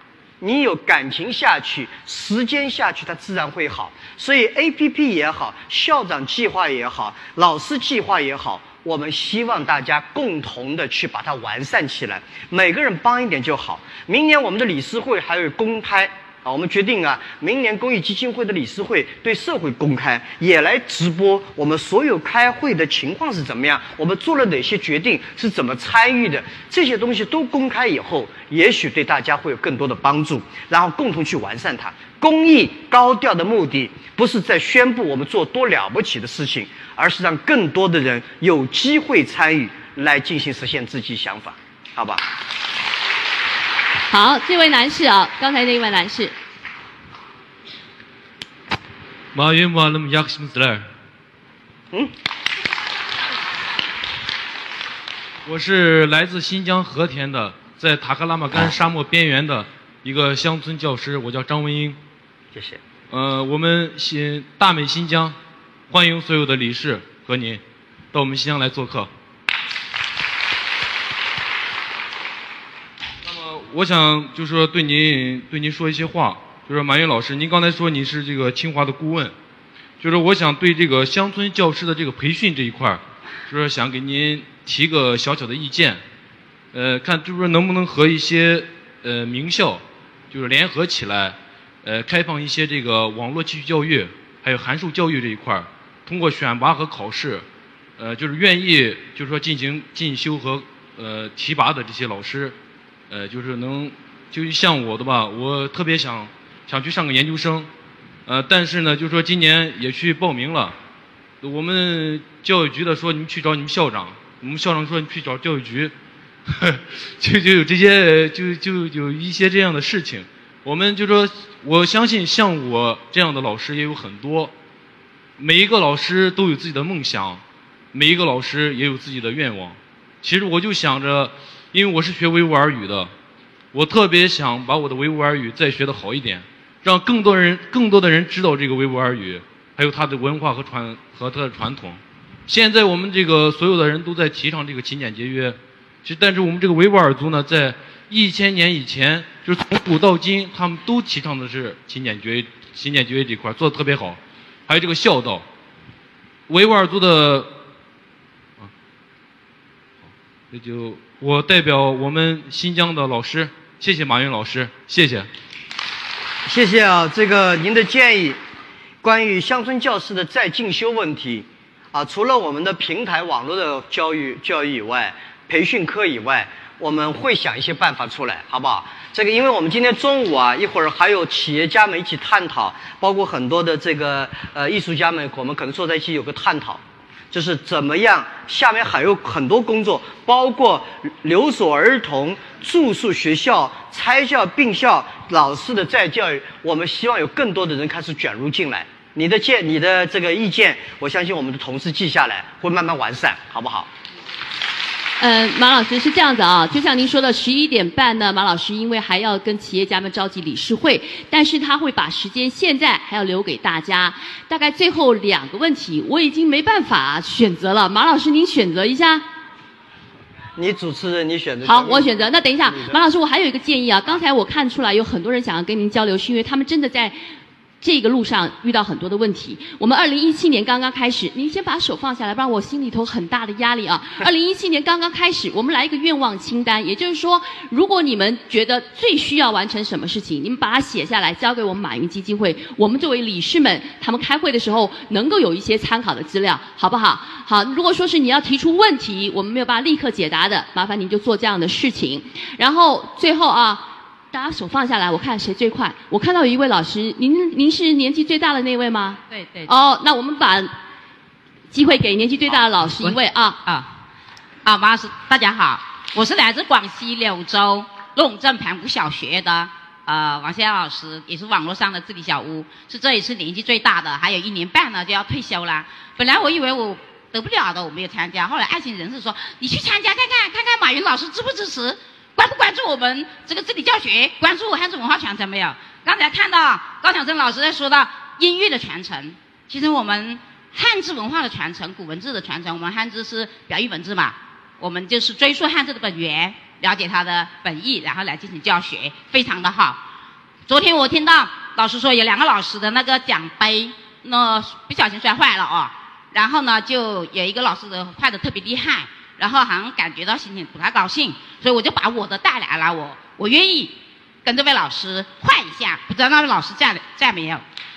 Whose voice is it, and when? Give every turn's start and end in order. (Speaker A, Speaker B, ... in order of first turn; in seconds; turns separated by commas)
Speaker A: 0.4-42.2, Speaker B: 44.1-46.3, Speaker C: 49.3-50.8, Speaker C: 55.5-62.0, Speaker C: 63.1-65.3, Speaker C: 65.9-67.6, Speaker C: 68.1-69.1, Speaker C: 73.2-79.3, Speaker C: 80.0-86.0, Speaker C: 86.7-97.4, Speaker C: 98.0-102.5, Speaker C: 103.1-107.7, Speaker C: 108.2-110.7, Speaker C: 111.4-115.9, Speaker C: 116.5-124.5, Speaker C: 125.4-127.4, Speaker C: 127.9-133.1, Speaker C: 133.7-155.4, Speaker C: 156.5-157.5, Speaker C: 160.5-165.3, Speaker A: 166.4-168.4, Speaker A: 169.0-186.8, Speaker A: 187.3-203.9, Speaker B: 205.2-219.2, Speaker A: 220.6-222.1, Speaker B: 221.7-227.2, Speaker A: 222.7-223.0, Speaker B: 227.8-260.7, Speaker D: 259.3-259.7, Speaker B: 261.7-263.6, Speaker D: 263.0-263.9, Speaker D: 264.6-300.0, Speaker D: 300.7-317.6